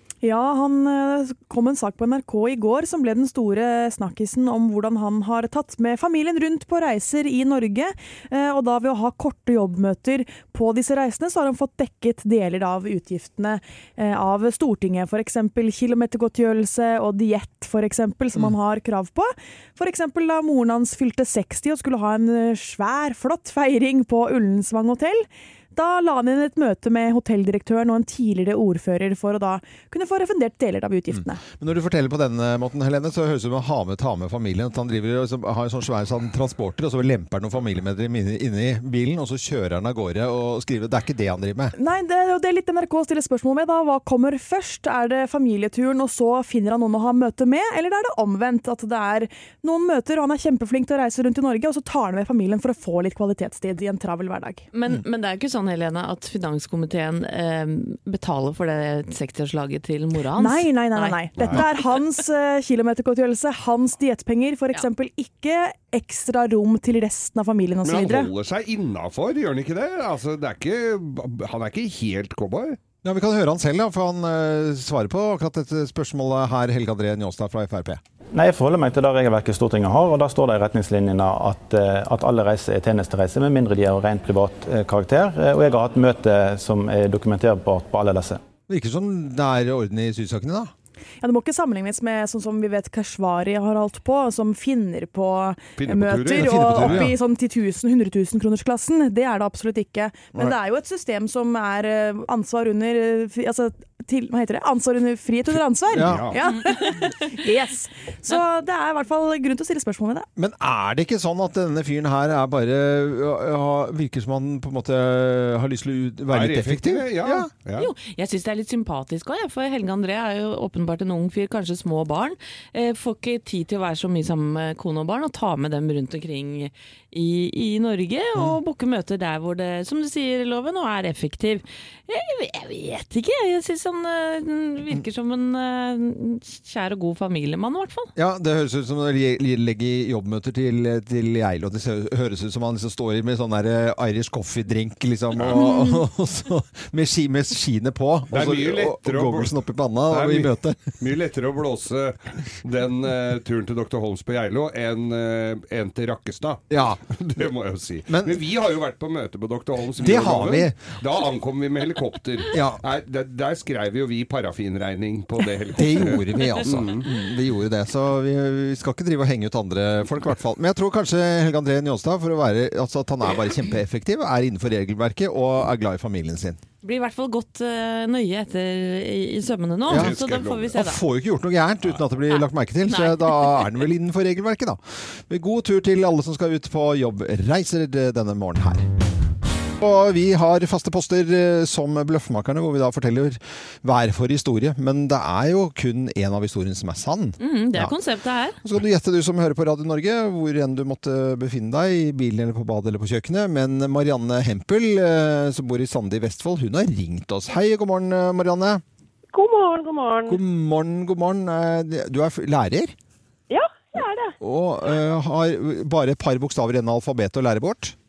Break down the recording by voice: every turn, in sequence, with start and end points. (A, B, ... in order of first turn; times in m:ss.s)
0:00.2-0:31.4 A
0:31.1-0:41.7 B
0:41.8-0:54.7 A
0:54.7-1:01.9 C
1:00.3-1:08.3 A
1:01.4-1:01.6 D
1:07.8-1:12.8 D
1:13.0-1:18.0 B
1:18.3-1:28.4 E
1:28.7-1:30.7 B
1:31.2-1:50.3 A
1:35.8-1:37.1 D
1:36.4-1:37.1 B
1:45.9-1:46.3 B
1:45.9-1:46.4 D
1:46.4-1:46.9 C
1:50.4-1:57.5 B
1:56.3-1:57.9 D
1:57.8-2:18.1 C
2:18.2-2:30.8 B
2:25.4-2:25.6 D
2:25.5-2:26.0 C
2:28.3-2:29.5 D
2:30.1-2:47.1 D
2:36.7-2:37.0 B
2:38.1-2:38.4 B
2:40.0-2:40.8 B
2:42.5-2:42.8 B
2:45.8-2:56.6 B
2:56.8-3:01.0 C
2:59.9-3:00.2 B
2:59.9-3:00.8 D
3:00.7-3:08.9 B
3:02.4-3:03.7 C
3:09.8-3:18.0 B
3:17.4-3:18.6 C
3:18.6-3:28.8 B
3:29.3-3:30.4 F
3:30.3-3:33.0 B
3:33.5-3:34.4 F
3:34.4-3:38.0 B